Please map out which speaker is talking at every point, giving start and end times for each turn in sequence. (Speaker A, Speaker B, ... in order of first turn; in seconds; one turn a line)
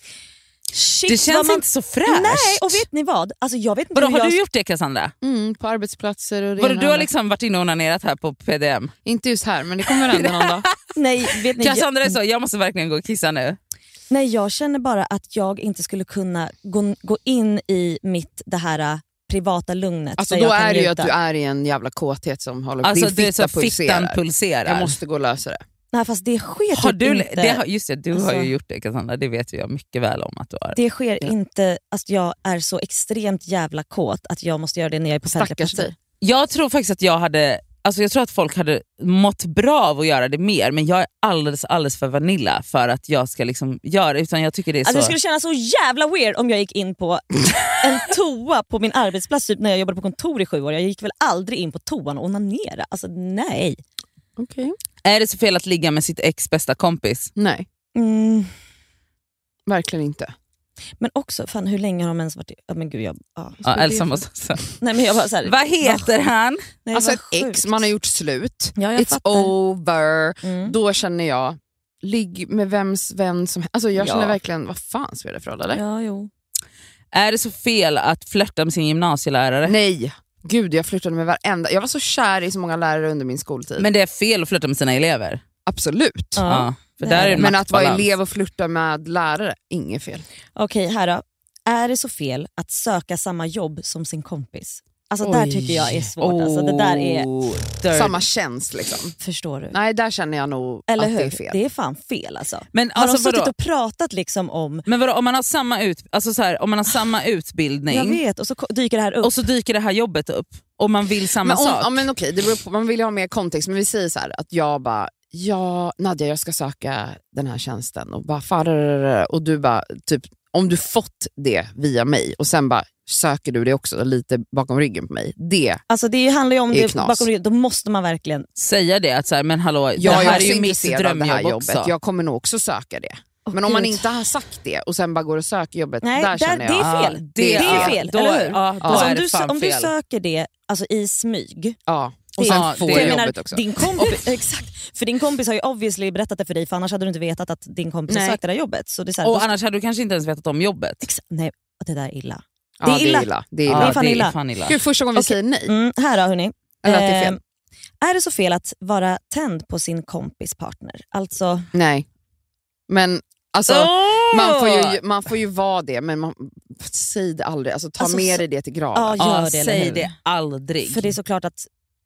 Speaker A: 0.7-4.4
Speaker B: 1.1-2.9
Speaker B: 4.0-5.1
Speaker C: 5.2-7.1
Speaker B: 6.6-8.9
Speaker C: 9.1-10.7
Speaker B: 9.9-10.8
Speaker A: 10.9-12.2
Speaker B: 11.3-13.6
Speaker A: 14.1-21.1
Speaker C: 20.2-25.6
Speaker B: 22.8-24.9
Speaker A: 25.9-28.5
Speaker B: 26.7-31.3
Speaker A: 30.7-35.9
Speaker C: 35.2-35.9
Speaker B: 36.2-45.1
Speaker A: 44.9-53.8
Speaker C: 54.4-54.8
Speaker B: 55.0-57.3
Speaker C: 57.4-57.7
Speaker A: 58.0-58.5
Speaker C: 59.7-60.3
Speaker A: 61.0-64.2
Speaker B: 63.6-64.7
Speaker A: 64.8-66.1
Speaker B: 65.4-66.6
Speaker A: 66.8-67.9
Speaker C: 66.9-75.8
Speaker A: 68.8-69.5
Speaker A: 70.4-70.7
Speaker A: 74.0-74.4
Speaker A: 75.7-76.3
Speaker B: 77.1-79.8
Speaker C: 79.7-83.9
Speaker B: 83.8-85.4
Speaker C: 85.7-86.4
Speaker A: 86.4-87.5
Speaker B: 86.5-88.1
Speaker C: 87.4-90.2
Speaker A: 90.6-97.3
Speaker C: 95.2-96.0
Speaker B: 96.2-98.2
Speaker C: 97.9-99.2
Speaker A: 99.2-99.8
Speaker C: 99.7-101.6
Speaker A: 100.9-104.9
Speaker B: 102.7-103.5
Speaker B: 104.9-108.2
Speaker A: 107.9-109.3
Speaker B: 109.2-112.0
Speaker C: 111.4-125.8
Speaker A: 125.9-128.5
Speaker C: 126.7-127.3
Speaker B: 128.6-131.9
Speaker C: 130.0-138.0
Speaker A: 130.0-130.6
Speaker A: 133.5-134.1
Speaker A: 136.0-141.8
Speaker B: 136.8-139.9
Speaker C: 138.8-139.2
Speaker C: 141.9-144.2
Speaker A: 142.4-149.5
Speaker B: 142.4-143.3
Speaker C: 148.1-148.4
Speaker B: 149.2-151.1
Speaker A: 151.0-154.4
Speaker C: 152.8-154.0
Speaker B: 153.7-154.8
Speaker C: 154.6-155.7
Speaker A: 155.2-157.4
Speaker C: 156.8-157.4
Speaker A: 158.0-161.7
Speaker C: 161.7-162.1
Speaker C: 162.9-169.2
Speaker B: 163.7-165.0
Speaker A: 168.0-168.4
Speaker A: 168.9-170.2
Speaker B: 169.2-171.2
Speaker A: 170.8-171.7